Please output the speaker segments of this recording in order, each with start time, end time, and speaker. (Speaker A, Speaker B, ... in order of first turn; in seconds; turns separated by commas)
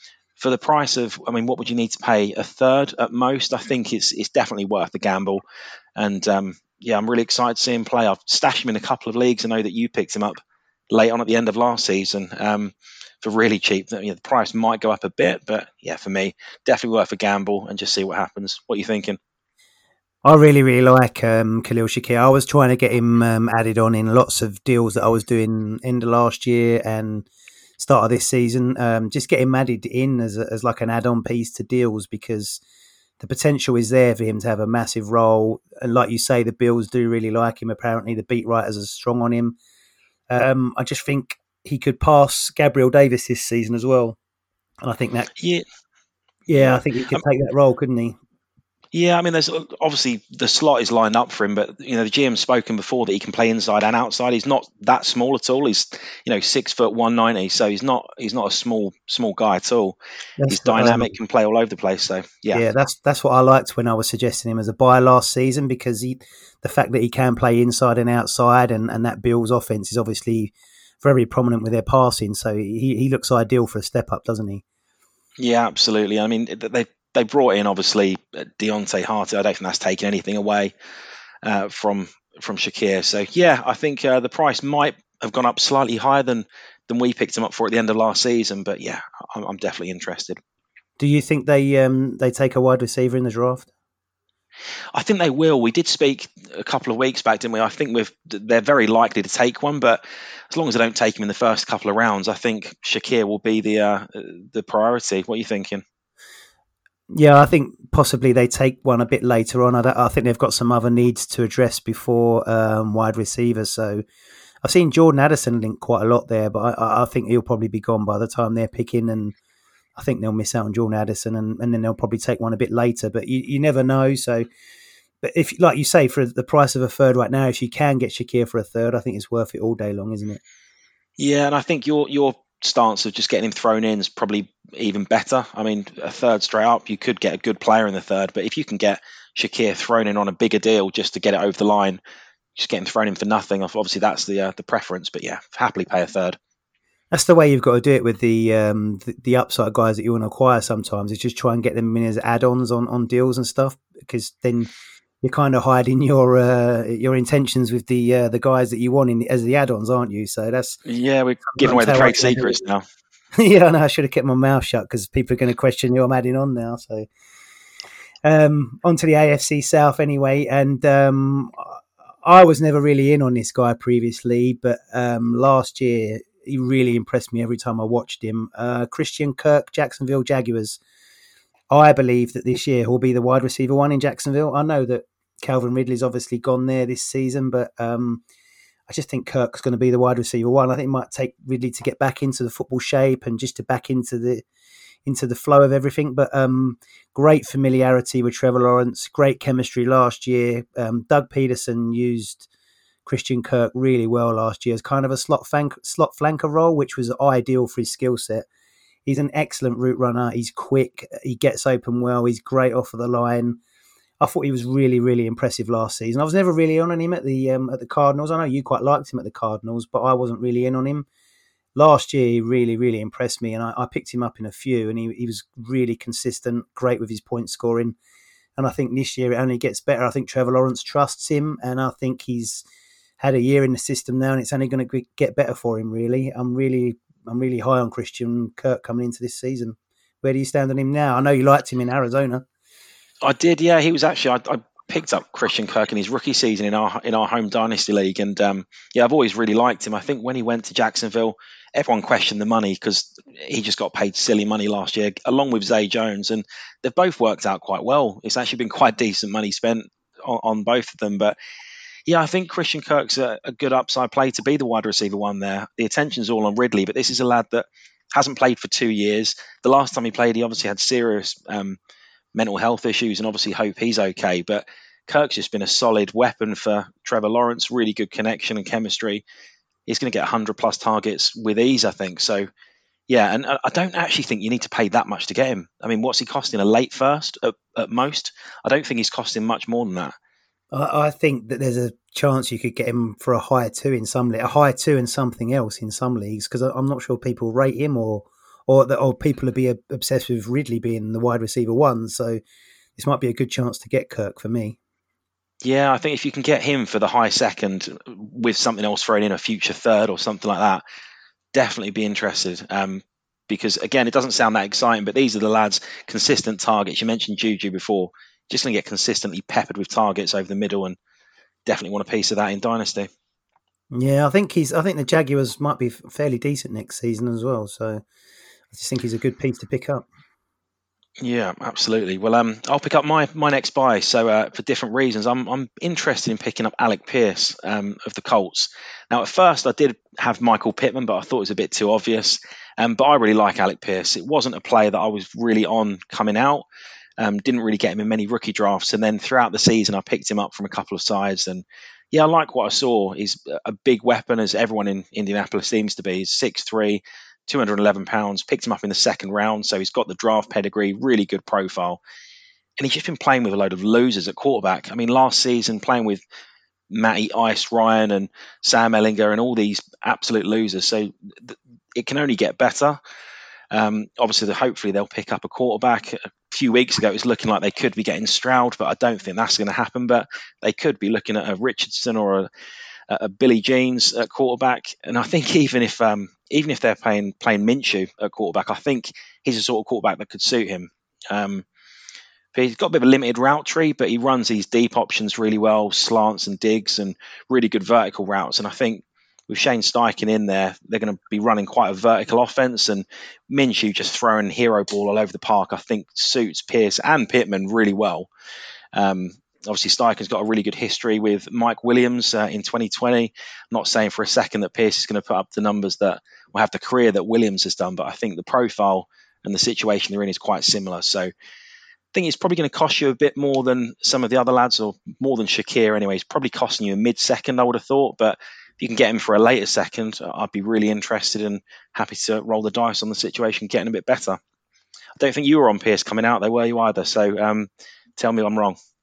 Speaker A: 0.4-5.4, Speaker A: 6.0-10.4, Speaker A: 10.9-19.2, Speaker B: 20.2-27.3, Speaker B: 27.8-32.6, Speaker B: 33.2-39.6, Speaker B: 40.3-44.2, Speaker B: 44.8-45.3, Speaker A: 45.4-45.6, Speaker B: 46.5-48.2, Speaker A: 46.6-47.2, Speaker A: 48.9-60.0, Speaker B: 60.4-61.1, Speaker A: 60.5-62.6, Speaker B: 62.5-74.6, Speaker A: 75.4-80.7, Speaker A: 81.4-90.4, Speaker B: 91.0-93.7, Speaker A: 94.9-105.8, Speaker B: 107.1-114.0, Speaker B: 114.6-119.3, Speaker B: 120.0-124.5, Speaker B: 125.2-130.4, Speaker A: 131.2-142.0, Speaker A: 142.6-146.4, Speaker B: 147.1-154.7, Speaker B: 155.2-160.8, Speaker A: 160.9-162.8, Speaker B: 161.5-162.6, Speaker B: 163.3-167.1, Speaker B: 168.2-180.8, Speaker B: 181.7-188.2, Speaker B: 188.9-194.4, Speaker B: 195.1-202.5, Speaker B: 203.1-208.5, Speaker B: 209.1-213.6, Speaker B: 214.2-221.1, Speaker B: 221.8-227.9, Speaker B: 228.6-232.6, Speaker B: 233.2-242.4, Speaker A: 243.2-261.4, Speaker A: 262.1-271.8, Speaker A: 272.4-279.2, Speaker A: 279.9-282.5, Speaker A: 283.1-290.1, Speaker B: 290.7-302.4, Speaker B: 303.0-304.8, Speaker A: 305.6-310.8, Speaker A: 311.5-321.0, Speaker A: 321.7-323.1, Speaker B: 323.9-328.0, Speaker B: 328.7-330.1, Speaker A: 331.2-346.6, Speaker A: 347.2-362.0, Speaker A: 362.8-366.2, Speaker A: 366.9-373.0, Speaker A: 373.7-382.5, Speaker A: 383.1-391.7, Speaker A: 392.5-408.3, Speaker A: 408.9-421.3, Speaker A: 422.1-434.4, Speaker A: 435.2-438.8